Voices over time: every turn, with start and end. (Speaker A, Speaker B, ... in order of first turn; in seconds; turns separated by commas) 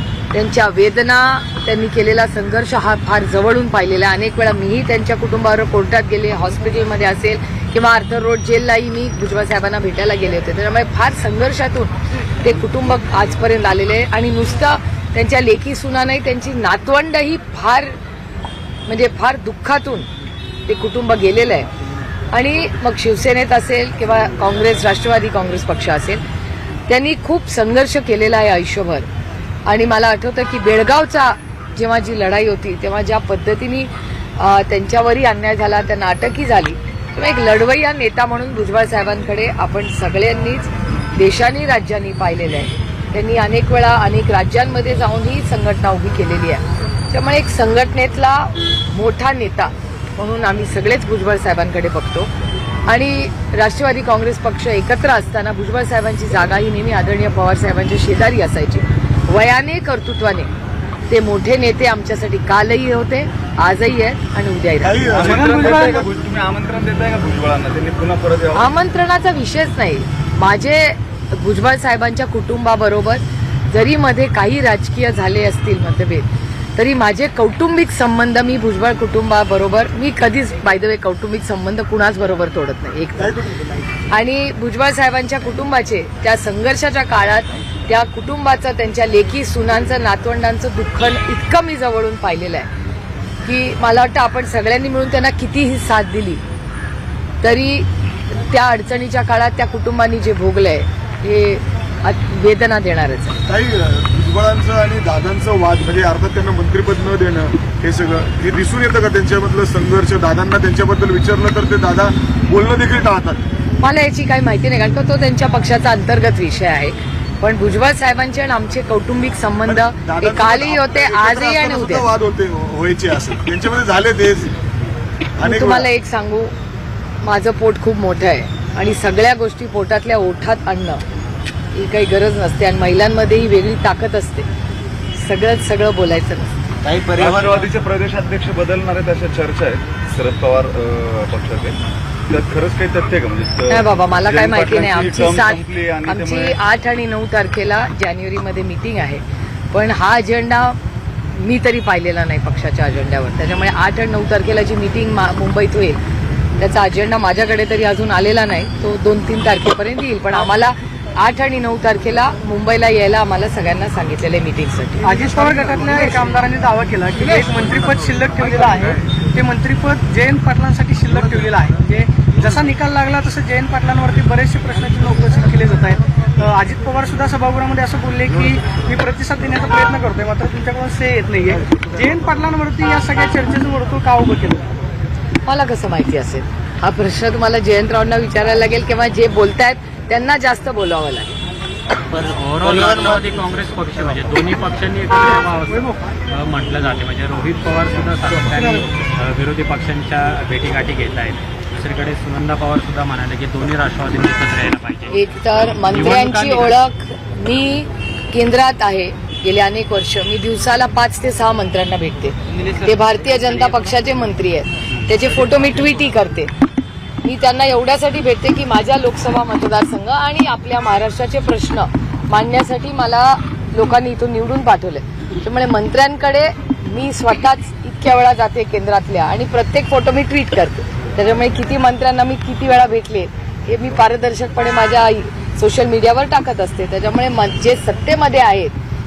Speaker A: 0.3-18.0, Speaker A: 18.9-20.1, Speaker A: 20.7-21.7, Speaker A: 22.3-26.2, Speaker A: 26.9-29.0, Speaker A: 29.6-52.3, Speaker A: 52.9-60.5, Speaker A: 61.1-65.1, Speaker B: 64.8-66.1, Speaker C: 65.1-68.8, Speaker D: 65.2-66.0, Speaker A: 68.5-83.3, Speaker B: 83.2-83.6, Speaker A: 84.1-92.7, Speaker A: 93.4-96.4, Speaker A: 97.4-103.4, Speaker B: 103.5-113.4, Speaker A: 113.8-122.1, Speaker B: 119.7-124.5, Speaker B: 125.4-125.9, Speaker A: 125.4-126.5, Speaker A: 127.2-131.0, Speaker A: 131.7-134.5, Speaker A: 135.1-136.5, Speaker E: 136.8-137.7, Speaker C: 137.2-141.8, Speaker C: 142.3-146.6, Speaker A: 143.7-150.8, Speaker A: 151.3-156.0, Speaker A: 156.6-165.1, Speaker D: 165.0-184.7, Speaker B: 165.4-166.2, Speaker A: 185.4-191.4, Speaker E: 192.1-193.4, Speaker F: 192.3-206.7, Speaker A: 205.1-216.5, Speaker E: 212.5-212.8, Speaker A: 217.2-238.7